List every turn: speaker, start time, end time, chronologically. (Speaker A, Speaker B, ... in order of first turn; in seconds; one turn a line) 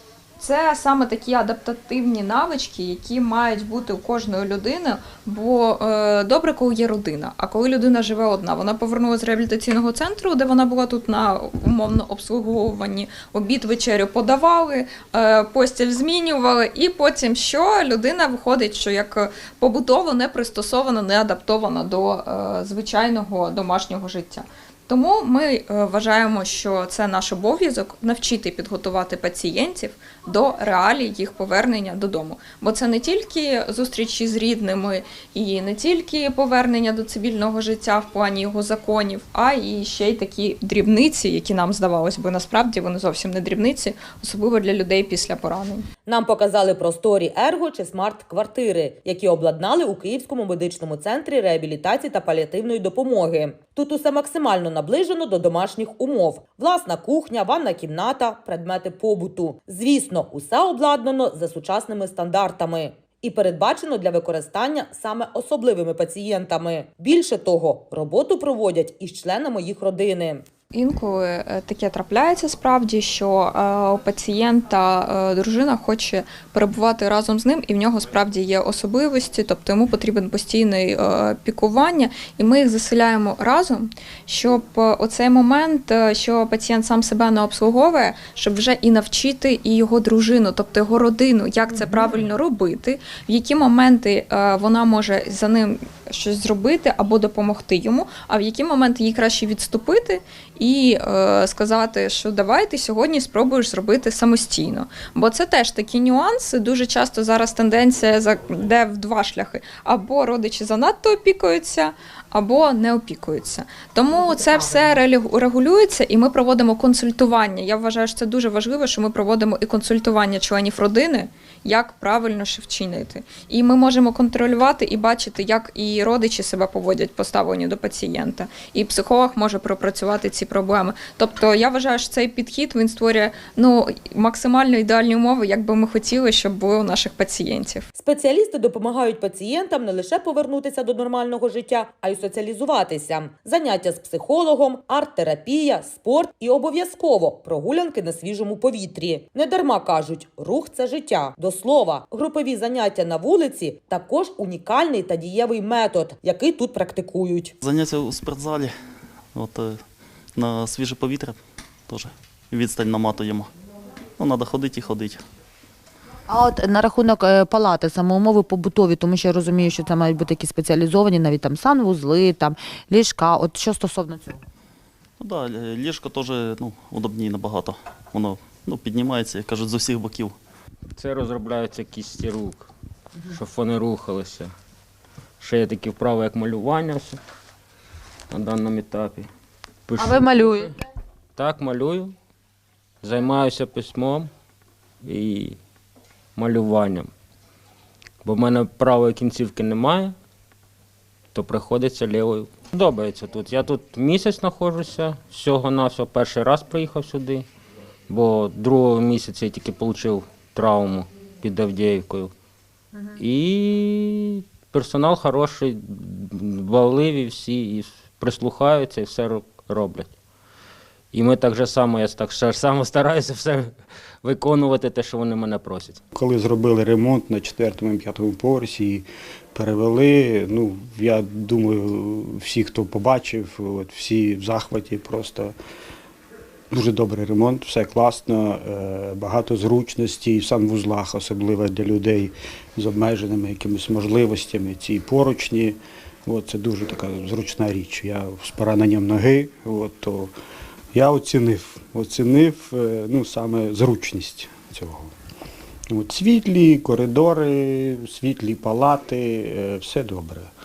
Speaker A: 0.4-45.9
Speaker B: 46.1-70.4
Speaker A: 70.7-137.9
Speaker B: 138.0-157.6
Speaker C: 157.6-158.8
Speaker C: 159.3-159.8
Speaker C: 160.3-163.5
Speaker C: 164.2-165.2
Speaker D: 166.3-174.4
Speaker C: 175.2-180.4
Speaker E: 181.0-182.7
Speaker E: 183.3-184.5
Speaker E: 185.4-187.2
Speaker E: 188.3-189.3
Speaker E: 189.9-190.8
Speaker D: 190.0-190.7
Speaker E: 191.4-192.1
Speaker E: 193.0-194.3
Speaker E: 195.0-195.6
Speaker E: 196.4-197.1
Speaker E: 198.2-200.2
Speaker E: 201.3-207.5
Speaker E: 208.1-212.3
Speaker E: 213.2-220.1
Speaker E: 221.1-226.0
Speaker F: 226.1-235.6
Speaker F: 236.7-250.3
Speaker F: 250.9-255.1
Speaker F: 255.9-260.5